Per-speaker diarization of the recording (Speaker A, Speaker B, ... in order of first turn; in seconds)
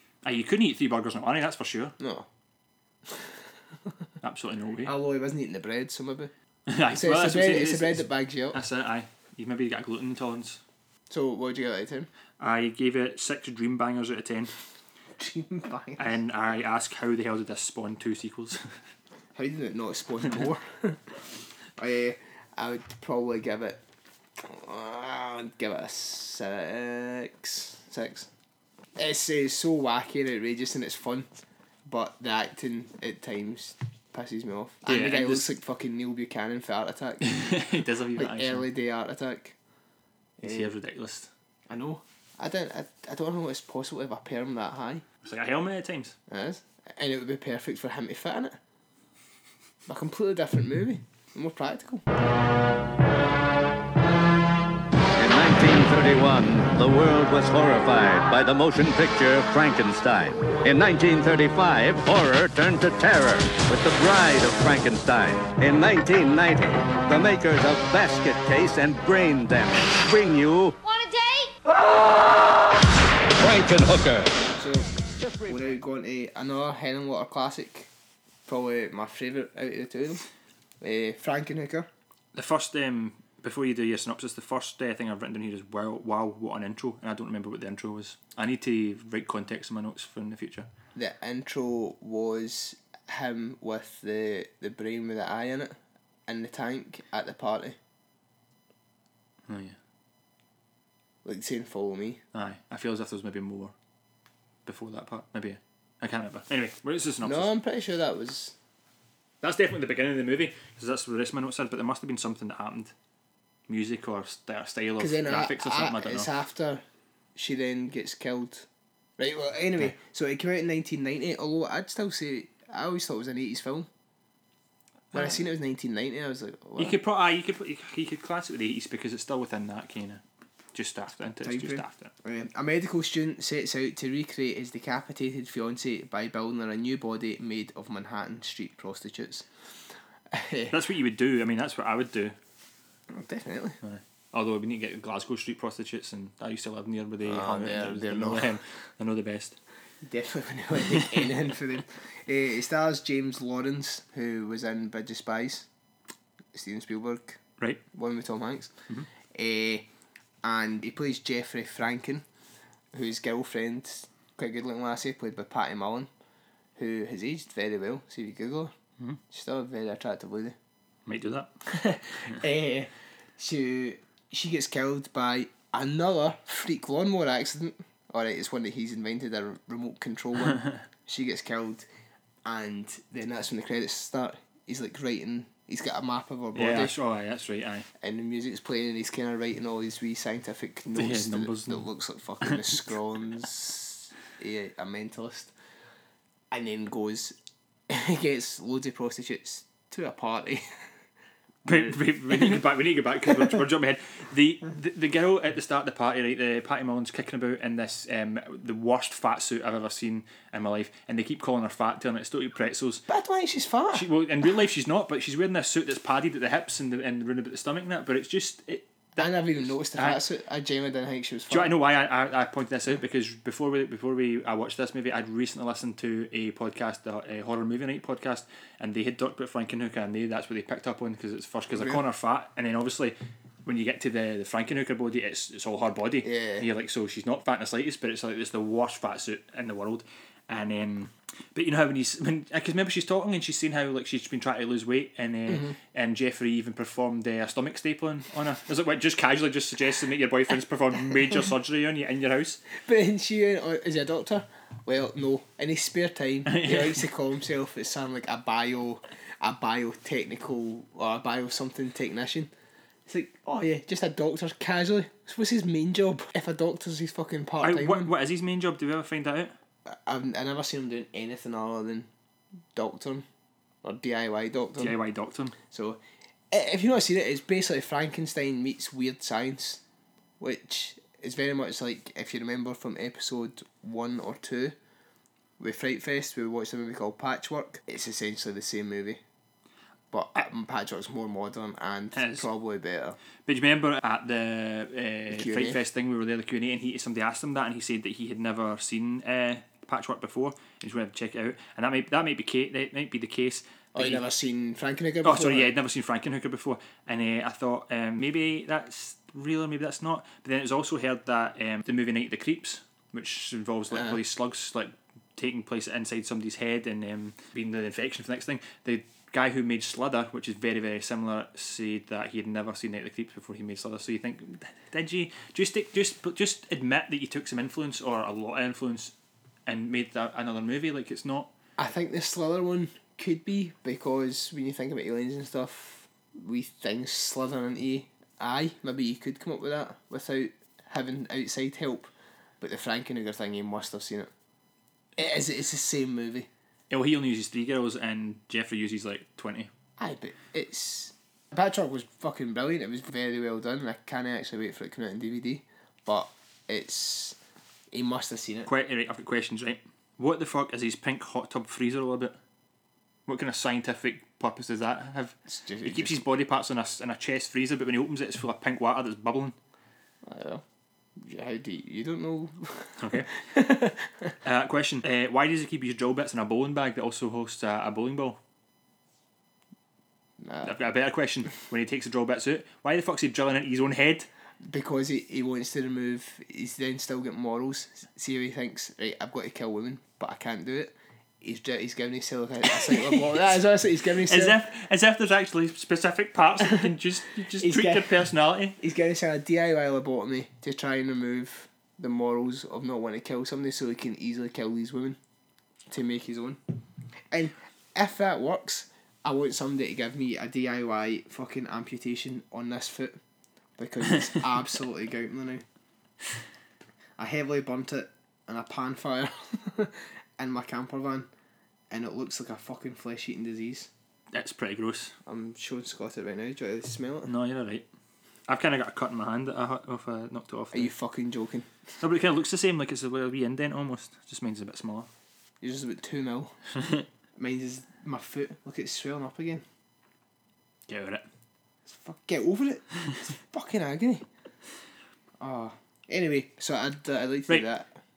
Speaker A: 0.2-1.9, 4.2-4.9, 6.7-10.6, 12.4-14.5, 16.0-18.7, 34.9-35.5, 37.2-38.7, 40.4-41.3, 45.2-46.2, 82.3-90.7, 99.5-99.8, 102.3-103.7, 104.7-107.5, 109.4-112.9, 113.7-116.3, 126.8-130.2, 130.7-132.1, 140.7-142.4, 143.8-149.6, 171.1-171.5, 186.6-187.9, 190.9-191.9, 192.4-192.8, 201.7-213.0, 213.9-220.2, 221.5-252.6, 256.5-257.0, 267.6-269.5, 274.8-275.6, 292.1-292.5, 293.4-304.2, 305.2-329.1, 329.7-331.5, 346.9-349.7, 358.7-362.4, 363.3-369.6, 373.0-373.3, 374.4-378.4, 380.6-384.3, 392.8-393.6, 394.3-398.8, 424.3-425.1, 427.3-427.9, 428.5-430.9, 432.0-435.1, 440.9-441.3
Speaker B: 2.0-2.3, 3.1-3.4, 4.8-6.3, 6.9-8.6, 11.1-12.1, 15.2-16.1, 19.4-21.2, 21.8-23.8, 24.4-28.3, 29.0-31.3, 31.9-39.6, 40.4-40.7, 41.7-45.0, 46.3-48.6, 49.9-52.0, 74.5-74.9, 75.4-77.9, 78.5-80.3, 80.8-81.9, 91.0-97.8, 101.2-102.2, 107.2-108.6, 115.0-116.8, 117.3-118.7, 119.2-123.9, 125.1-127.0, 131.4-139.5, 140.3-140.8, 143.1-143.8, 147.2-148.6, 150.0-155.7, 156.5-158.7, 159.3-159.9, 160.4-162.2, 162.9-166.1, 166.8-168.7, 169.3-170.6, 171.7-181.9, 182.4-187.0, 188.0-195.5, 196.5-197.4, 197.9-200.9, 201.7-202.6, 203.3-203.6, 213.1-214.1, 219.2-221.7, 231.7-232.0, 236.2-236.7, 245.5-245.8, 252.7-262.5, 263.1-268.1, 269.9-272.1, 272.7-273.3, 273.8-275.0, 275.7-279.8, 280.4-284.8, 285.6-289.2, 290.1-293.2, 295.3-295.8, 303.9-305.7, 331.8-344.3, 345.2-346.5, 350.0-357.4, 357.9-358.7, 365.5-366.2, 370.2-370.6, 371.2-374.3, 380.4-380.8, 384.6-394.6, 396.6-396.9, 397.6-398.3, 398.8-405.2, 405.9-406.6, 407.3-413.2, 413.8-415.6, 417.2-421.3, 421.9-423.9, 425.3-427.3, 430.7-431.7, 435.6-436.6, 437.4-439.6, 441.9-444.2, 445.4-448.0
Speaker C: 55.2-70.8, 73.4-74.3